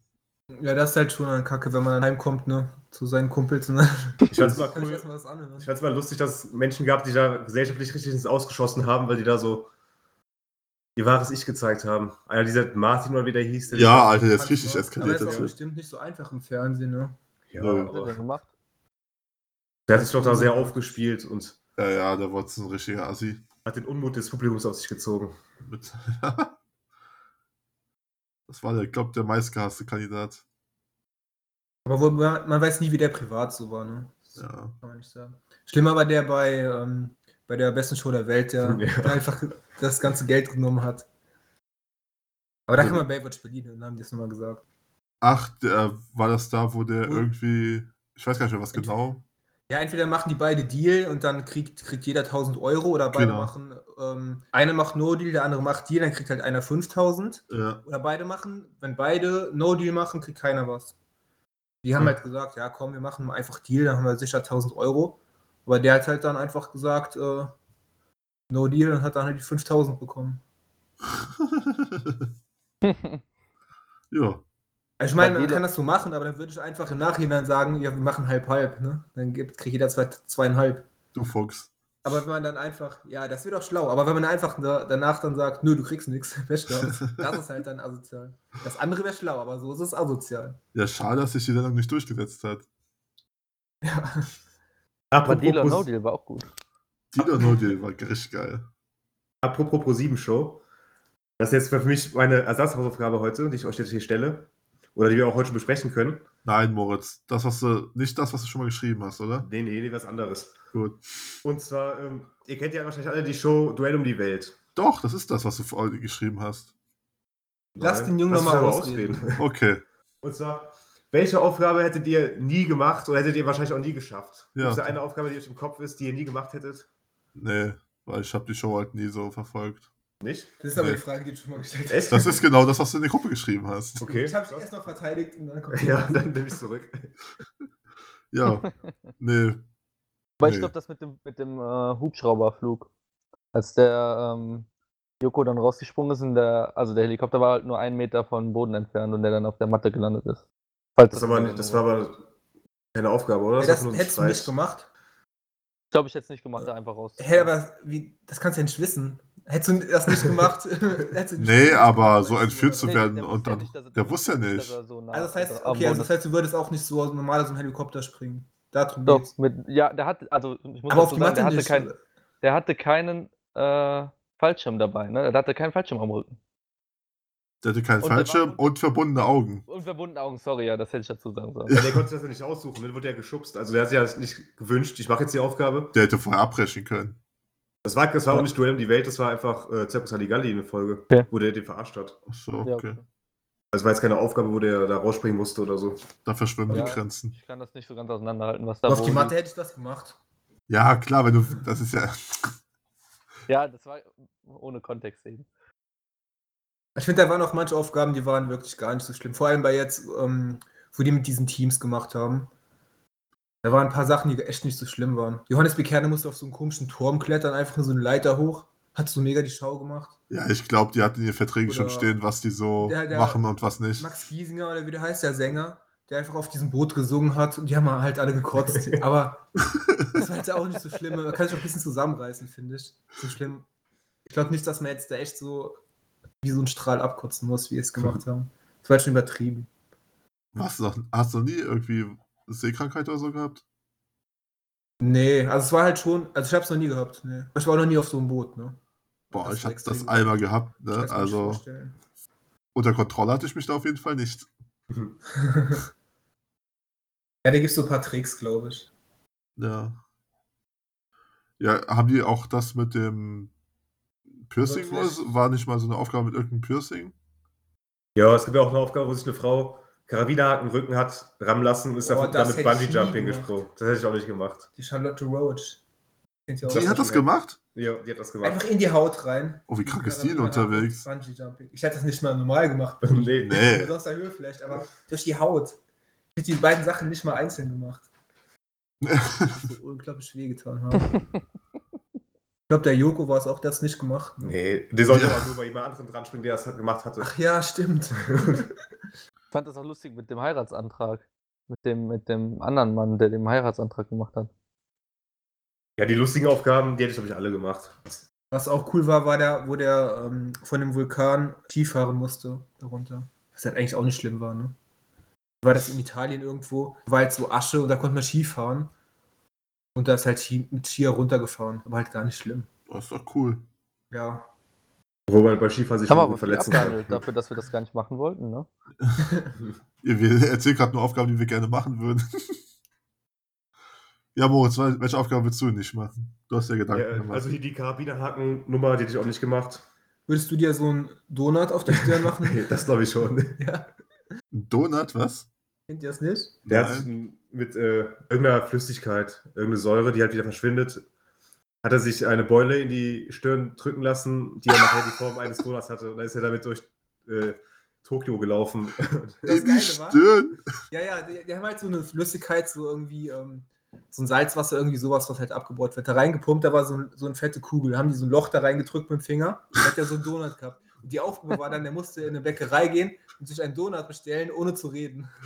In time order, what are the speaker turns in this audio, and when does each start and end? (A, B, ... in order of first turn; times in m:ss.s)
0:00.5-0:05.7 A
0:04.3-0:05.1 B
0:04.3-0:04.6 C
0:05.6-0:09.7 B
0:11.0-0:14.2 B
0:13.7-0:15.5 C
0:14.1-0:17.2 A
0:15.1-0:15.5 B
0:17.5-0:18.2 B
0:17.6-0:17.9 C
0:17.8-0:18.5 D
0:19.9-0:21.6 B
0:19.9-0:20.8 A
0:21.8-0:23.4 C
0:23.6-0:25.3 B
0:25.6-0:26.6 C
0:28.5-0:30.4 C
0:31.8-0:41.1 A
0:34.4-0:34.7 C
0:38.6-0:39.2 B
0:42.7-0:44.6 A
0:42.8-0:43.0 C
0:45.2-0:49.2 C
0:49.7-1:00.9 A
0:53.1-0:53.5 C
0:57.5-0:57.8 C
1:01.8-1:07.5 A
1:08.5-1:10.4 A
1:11.1-1:12.3 C
1:12.8-1:13.2 D
1:14.1-1:14.4 C
1:15.0-1:20.9 A
1:15.2-1:15.6 D
1:21.1-1:21.7 C
1:22.0-1:30.6 A
1:30.7-1:32.7 C
1:33.8-1:34.3 A
1:35.1-1:35.9 B
1:35.2-1:36.5 D
1:37.1-1:38.7 C
1:39.4-1:40.6 B
1:41.4-1:46.2 B
1:46.4-1:49.5 C
1:49.4-1:50.6 B
1:50.7-1:51.0 C
1:51.4-1:54.6 B
1:54.8-1:56.7 C
1:57.8-1:59.4 B
1:57.8-1:59.2 A
1:59.3-1:59.8 C
2:00.2-2:06.9 B
2:04.6-2:05.0 C
2:07.4-2:09.9 C
2:10.2-2:10.6 B
2:10.6-2:12.4 A
2:10.8-2:11.0 C
2:11.9-2:12.4 B
2:12.1-2:14.2 C
2:14.0-2:14.7 B
2:14.1-2:16.2 A
2:15.7-2:17.1 B
2:18.3-2:19.6 C
2:18.4-2:18.9 D
2:20.4-2:22.9 D
2:20.4-2:20.7 C
2:23.5-2:24.7 D
2:25.2-2:30.4 D
2:31.0-2:31.8 D
2:31.1-2:32.2 B
2:32.9-2:34.5 B
2:33.6-2:34.9 A
2:35.9-2:37.5 D
2:37.2-2:43.1 A
2:41.4-2:44.8 C
2:42.8-2:46.1 D
2:45.1-2:49.3 A
2:49.0-2:51.9 D
2:50.9-2:52.0 A
2:52.4-2:56.4 D
2:57.6-2:59.6 C
2:58.0-2:58.7 D
2:59.7-3:01.8 D
3:01.7-3:05.9 B
3:01.7-3:02.0 C
3:05.9-3:07.2 C
3:07.8-3:12.2 B
3:12.3-3:13.0 C
3:12.6-3:13.0 D
3:13.7-3:16.0 B
3:16.2-3:17.3 C
3:16.7-3:19.3 D
3:18.8-3:20.2 A
3:20.7-3:22.5 C
3:23.5-3:25.4 D
3:27.0-3:32.5 A
3:33.6-3:40.2 A
3:40.3-3:44.2 C
3:41.7-3:42.1 A
3:42.8-3:43.4 A
3:44.0-3:53.6 A
3:48.7-3:49.0 B
3:54.3-3:55.8 A
3:56.4-3:59.7 A
4:00.5-4:03.6 C
4:05.0-4:08.8 A
4:09.3-4:11.6 C
4:09.3-4:12.0 A
4:12.7-4:14.5 C
4:15.4-4:15.8 A
4:17.4-4:18.9 A
4:19.6-4:20.0 C
4:21.6-4:23.5 C
4:24.4-4:27.1 C
4:24.6-4:25.2 A
4:28.2-4:34.7 B
4:32.0-4:33.5 A
4:34.8-4:35.8 A
4:36.5-4:37.1 A
4:36.7-4:38.7 B
4:36.7-4:37.6 C
4:38.4-4:45.8 A
4:39.7-4:41.0 C
4:43.0-4:43.7 B
4:43.4-4:43.9 C
4:46.3-4:48.1 A
4:49.0-4:49.6 C
4:49.4-4:51.2 A
4:51.1-4:51.4 D
4:52.7-4:54.6 A
4:54.4-4:57.3 B
4:55.1-4:55.5 C
4:57.2-4:58.8 A
4:58.3-4:58.5 B
4:59.5-5:04.5 D
5:06.0-5:08.2 B
5:08.5-5:14.8 A
5:15.6-5:18.9 A
5:19.9-5:22.7 A
5:22.9-5:23.6 C
5:24.1-5:24.5 A
5:25.3-5:27.2 B
5:26.0-5:28.7 D
5:29.2-5:29.5 A
5:30.0-5:32.6 C
5:34.3-5:37.5 C
5:36.9-5:39.8 B
5:40.3-5:42.9 A
5:41.9-5:43.6 B
5:43.6-5:43.9 A
5:44.5-5:45.5 C
5:45.9-5:46.6 A
5:46.6-5:47.1 C
5:46.7-5:51.0 B
5:51.8-5:59.5 B
5:59.4-6:00.2 A
5:59.5-6:00.7 C
6:00.9-6:15.3 A